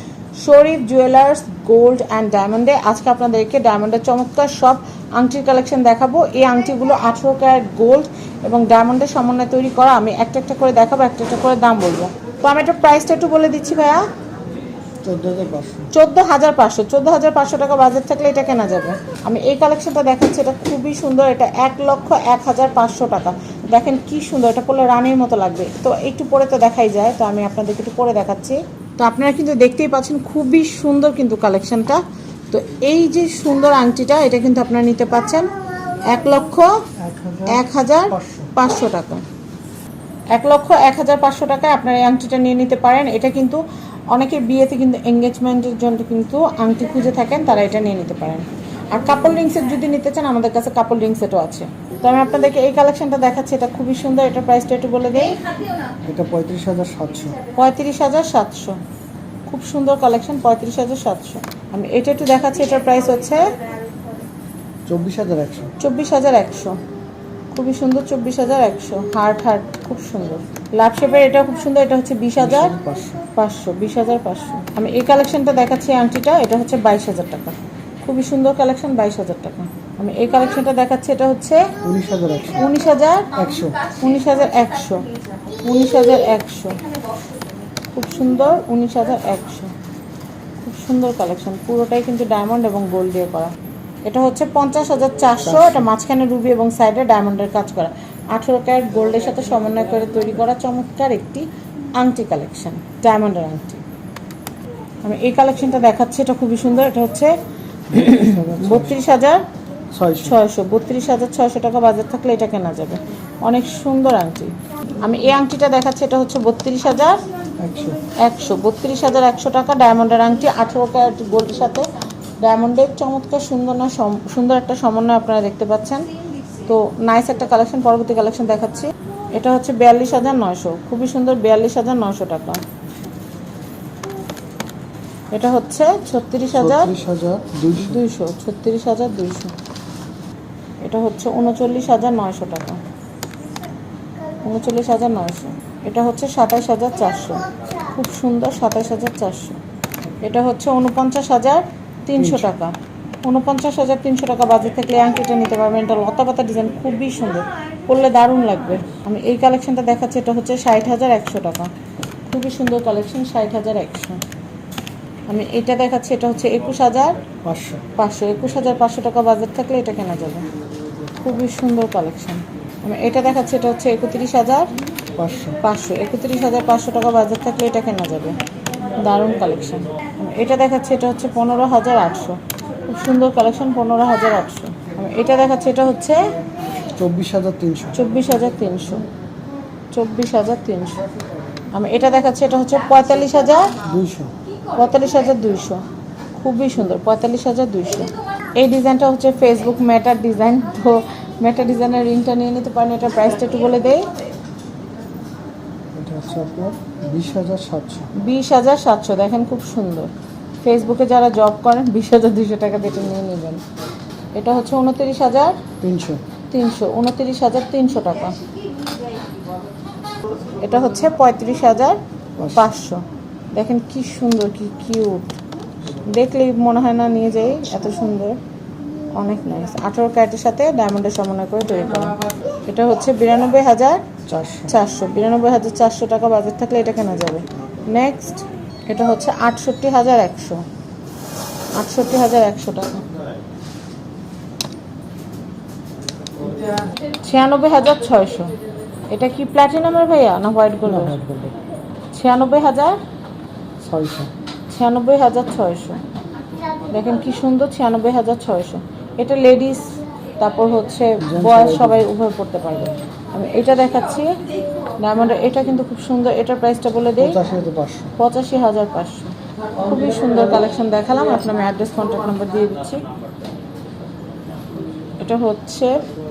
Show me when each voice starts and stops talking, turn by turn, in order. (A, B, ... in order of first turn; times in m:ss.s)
0:00.4-0:14.0 A
0:15.0-0:15.9 B
0:15.9-0:36.7 A
0:37.0-0:38.5 B
0:37.5-0:39.2 A
0:40.3-0:43.6 A
0:44.1-0:55.5 A
0:56.0-0:57.4 B
0:57.5-0:58.8 A
0:59.5-1:03.6 A
1:04.8-1:05.7 B
1:05.8-1:06.8 A
1:07.5-1:12.8 A
1:12.4-1:13.2 B
1:13.3-1:21.7 A
1:21.8-1:22.7 B
1:22.6-1:23.4 A
1:23.3-1:23.8 B
1:24.0-1:26.9 A
1:27.9-1:29.7 A
1:30.6-1:33.5 A
1:34.0-1:43.8 A
1:35.4-1:35.9 B
1:45.0-1:47.3 A
1:47.9-1:49.0 B
1:47.9-1:49.4 A
1:49.9-1:50.4 B
1:50.2-1:57.2 A
1:57.6-1:58.0 B
1:58.2-2:01.9 A
2:02.4-2:06.1 A
2:06.6-2:12.6 A
2:15.3-2:16.9 A
2:16.5-2:18.0 B
2:17.7-2:19.5 A
2:20.8-2:22.8 A
2:24.4-2:29.6 A
2:30.2-2:41.7 A
2:32.2-2:32.5 B
2:42.3-2:44.2 A
2:45.3-2:47.2 A
2:47.4-2:47.8 B
2:48.0-2:50.4 A
2:51.2-2:54.7 A
2:55.2-2:55.6 B
2:55.6-2:58.4 A
2:59.0-3:06.2 A
3:06.9-3:08.0 B
3:07.9-3:09.0 A
3:09.9-3:11.0 A
3:11.7-3:13.8 A
3:13.8-3:14.3 B
3:14.7-3:15.8 A
3:16.4-3:24.1 A
3:25.9-3:28.1 B
3:28.2-3:30.1 A
3:30.6-3:33.6 A
3:34.4-3:35.6 A
3:35.8-3:36.2 B
3:36.5-3:38.4 A
3:40.6-3:42.0 A
3:42.4-3:42.8 B
3:42.5-3:43.0 A
3:43.5-3:45.4 A
3:46.0-3:48.4 A
3:49.1-3:54.0 A
3:54.3-3:54.8 B
3:54.7-4:00.6 A
4:01.7-4:03.1 A
4:07.2-4:08.5 A
4:09.1-4:11.2 A
4:10.8-4:11.6 B
4:12.1-4:13.0 A
4:13.8-4:14.3 B
4:14.7-4:16.0 A
4:16.9-4:24.4 A
4:21.2-4:22.1 B
4:25.0-4:27.4 A
4:27.2-4:28.1 B
4:28.2-4:33.0 A
4:35.2-4:36.0 A